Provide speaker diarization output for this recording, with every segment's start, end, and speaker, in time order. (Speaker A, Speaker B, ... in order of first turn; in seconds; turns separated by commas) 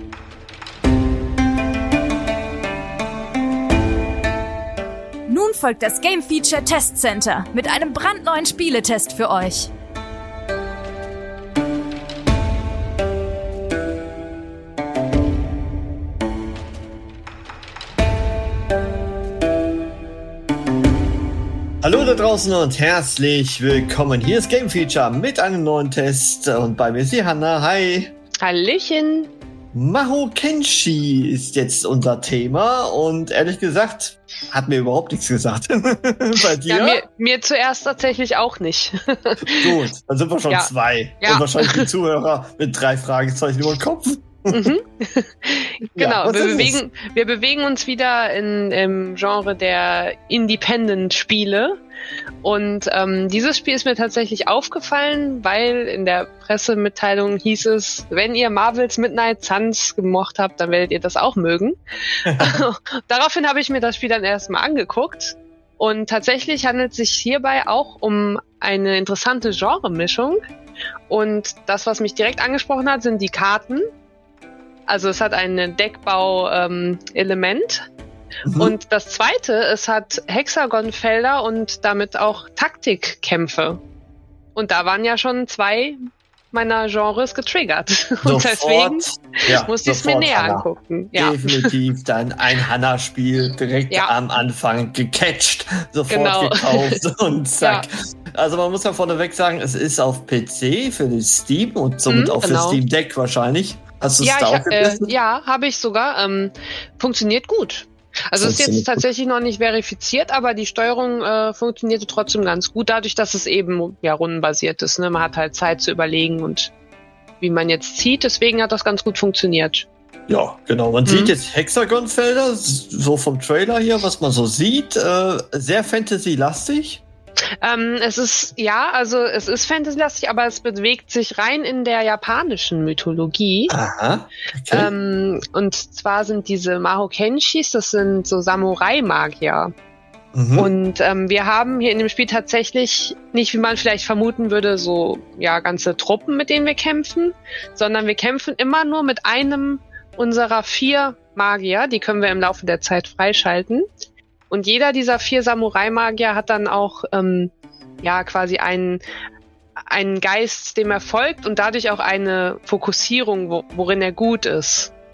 Speaker A: 5.3-9.7, Speaker B: 21.8-28.1, Speaker C: 28.4-29.3, Speaker B: 29.7-37.0, Speaker C: 36.7-39.7, Speaker B: 39.6-44.7, Speaker C: 41.2-41.9, Speaker C: 44.5-51.8, Speaker B: 46.0-46.8, Speaker C: 52.4-61.8, Speaker B: 62.2-62.6, Speaker C: 62.3-70.4, Speaker C: 71.1-73.8, Speaker C: 74.9-77.9, Speaker B: 78.5-78.8, Speaker C: 78.6-83.8, Speaker C: 84.5-86.0, Speaker C: 86.5-91.7, Speaker B: 88.2-105.1, Speaker C: 96.1-97.0, Speaker C: 97.6-97.9, Speaker C: 102.1-102.8, Speaker C: 104.2-116.7, Speaker B: 108.4-109.0, Speaker C: 117.4-119.9, Speaker B: 120.3-127.0, Speaker C: 121.1-121.3, Speaker C: 127.6-133.8, Speaker B: 133.7-134.9, Speaker C: 134.7-139.7, Speaker B: 140.3-140.7, Speaker C: 140.6-153.9, Speaker C: 154.5-159.0, Speaker C: 159.9-164.9